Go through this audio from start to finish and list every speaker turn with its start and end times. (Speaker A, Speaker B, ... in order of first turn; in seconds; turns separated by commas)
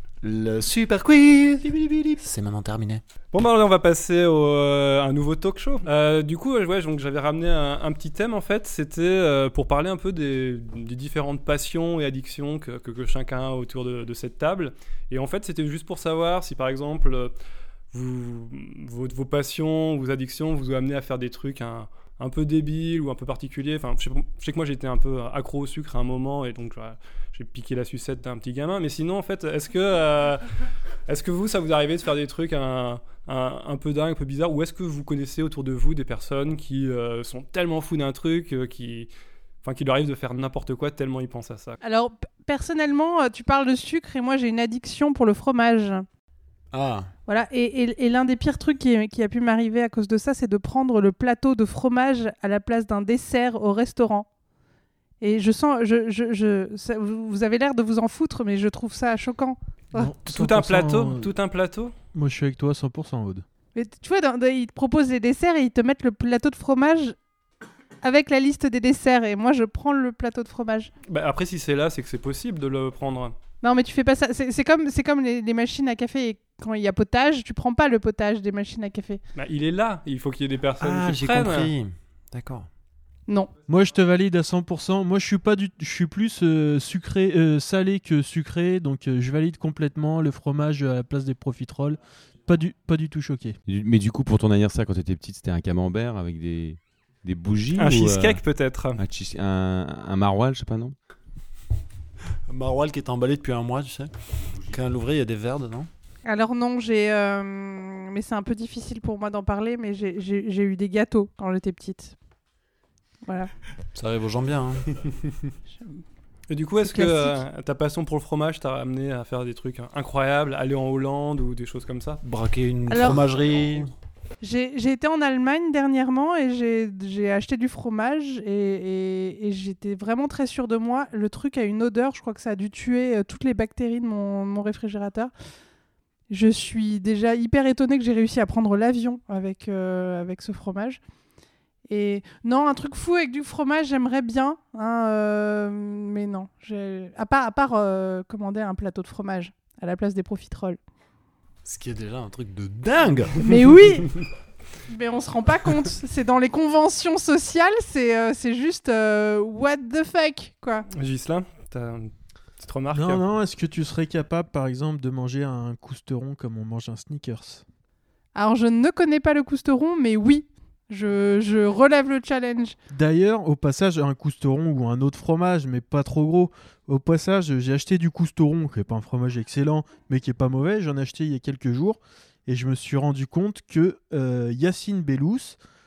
Speaker A: 0.2-3.0, Speaker B: 3.3-17.3, Speaker B: 17.9-30.4, Speaker B: 31.1-39.1, Speaker B: 39.6-41.8, Speaker C: 41.8-46.0, Speaker A: 46.7-47.1, Speaker C: 47.3-54.3, Speaker C: 55.2-60.1, Speaker D: 59.9-61.3, Speaker B: 60.2-61.9, Speaker D: 62.1-63.4, Speaker C: 63.7-67.2, Speaker C: 68.0-70.9, Speaker B: 71.1-73.3, Speaker C: 73.6-79.2, Speaker B: 79.3-81.7, Speaker A: 80.8-82.7, Speaker C: 83.3-83.5, Speaker D: 83.7-93.5, Speaker E: 93.7-98.4, Speaker B: 97.7-99.0, Speaker E: 99.0-100.9, Speaker A: 102.5-105.9, Speaker C: 106.2-112.1, Speaker C: 113.2-113.5, Speaker A: 113.9-115.2, Speaker B: 116.5-122.2, Speaker C: 116.8-117.4, Speaker A: 122.2-123.9, Speaker C: 122.9-123.3, Speaker C: 124.4-135.3, Speaker C: 136.3-141.0, Speaker C: 141.9-150.8, Speaker A: 151.6-153.5, Speaker C: 153.4-154.2, Speaker C: 154.9-160.9, Speaker B: 160.9-163.2, Speaker D: 162.9-167.6, Speaker C: 168.3-172.8, Speaker D: 172.9-185.6